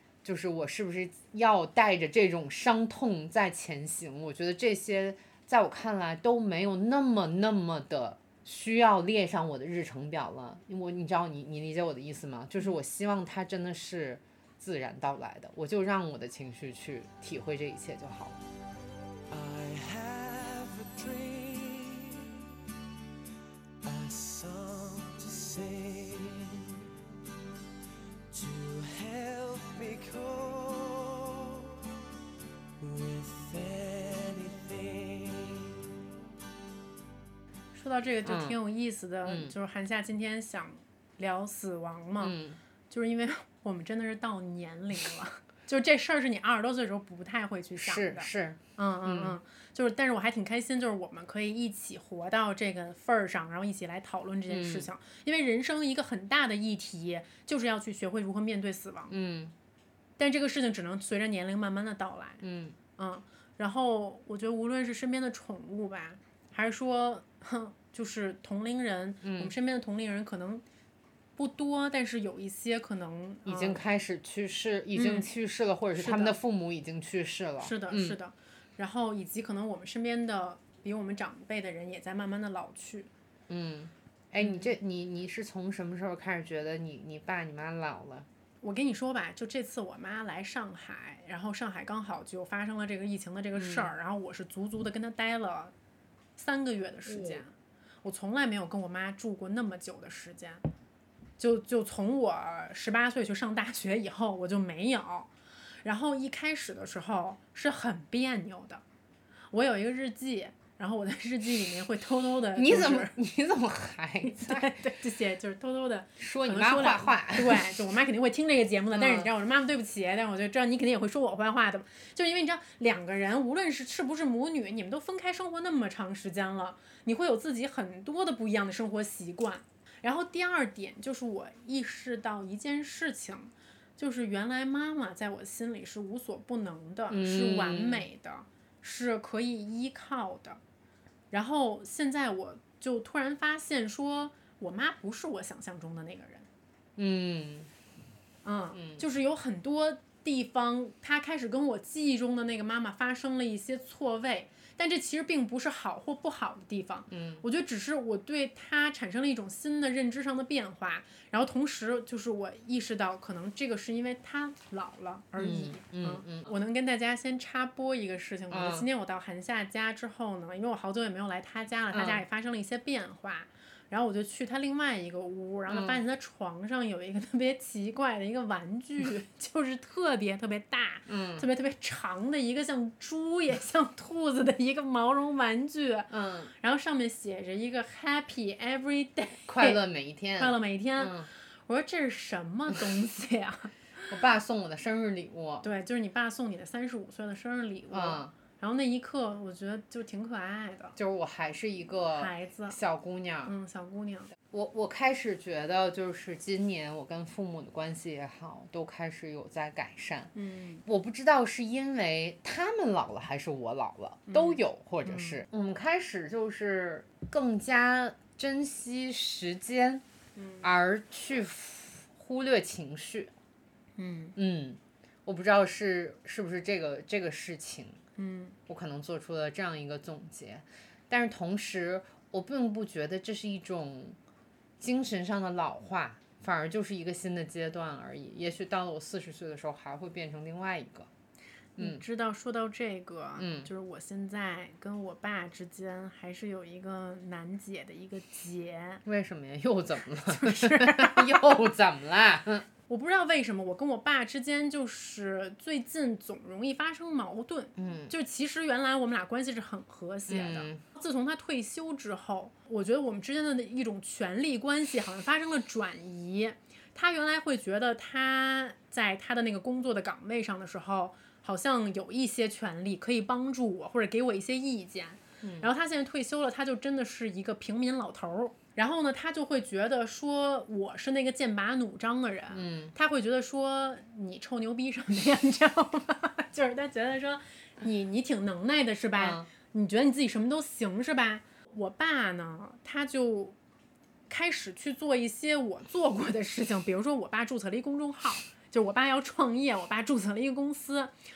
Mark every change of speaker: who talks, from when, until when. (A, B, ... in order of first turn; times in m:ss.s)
0:00.2-0:18.4 A
0:19.3-0:22.4 B
0:23.8-0:26.8 B
0:28.3-0:31.8 B
0:32.8-0:35.8 B
0:37.7-0:42.4 C
0:38.2-0:38.6 A
0:39.2-0:39.6 A
0:42.2-0:42.6 A
0:42.9-0:59.1 C
0:47.8-0:49.4 A
0:54.5-0:54.9 A
0:59.1-0:59.5 A
1:00.2-1:02.4 C
1:02.4-1:02.8 A
1:03.0-1:10.6 C
1:09.2-1:09.5 A
1:11.4-1:13.8 C
1:13.4-1:18.2 A
1:15.0-1:15.3 C
1:16.0-1:16.4 C
1:17.6-1:23.1 C
1:23.5-1:28.3 A
1:24.4-1:24.7 C
1:28.6-1:35.7 C
1:33.6-1:33.9 A
1:36.4-1:37.5 C
1:37.1-1:37.4 A
1:38.0-1:40.6 C
1:41.4-1:45.3 C
1:45.8-1:48.8 C
1:49.5-1:53.1 C
1:52.6-1:54.7 A
1:54.3-2:20.6 C
1:56.2-1:57.7 A
1:58.9-1:59.3 A
2:17.1-2:18.0 A
2:21.3-2:26.5 C
2:27.0-2:27.7 A
2:28.4-3:09.8 C
2:28.7-2:29.0 A
2:37.1-2:37.4 A
2:45.4-2:46.5 A
2:48.5-2:48.9 A
2:51.9-2:52.2 A
2:55.7-2:56.0 A
3:01.1-3:01.4 A
3:06.1-3:06.5 A
3:09.5-3:11.3 A
3:10.4-3:14.1 C
3:14.1-3:15.7 A
3:15.6-3:21.0 C
3:17.9-3:18.3 A
3:21.0-3:23.5 A
3:22.1-3:22.8 C
3:23.4-3:24.3 C
3:24.5-3:30.3 A
3:30.4-3:30.8 C
3:30.9-3:40.0 A
3:34.3-3:35.4 C
3:40.4-3:40.7 C
3:40.6-3:43.3 A
3:44.0-3:44.4 C
3:44.4-3:48.0 A
3:48.2-3:48.6 C
3:48.7-3:54.2 A
3:54.8-4:01.1 A
4:01.8-4:02.0 A
4:01.8-4:09.0 C
4:03.4-4:03.7 A
4:09.0-4:12.7 A
4:10.3-4:11.4 C
4:12.9-4:53.6 C
4:17.8-4:18.1 A
4:20.3-4:20.8 A
4:35.4-4:35.7 A
4:42.5-4:42.9 A
4:49.2-4:49.5 A
4:54.3-5:01.1 C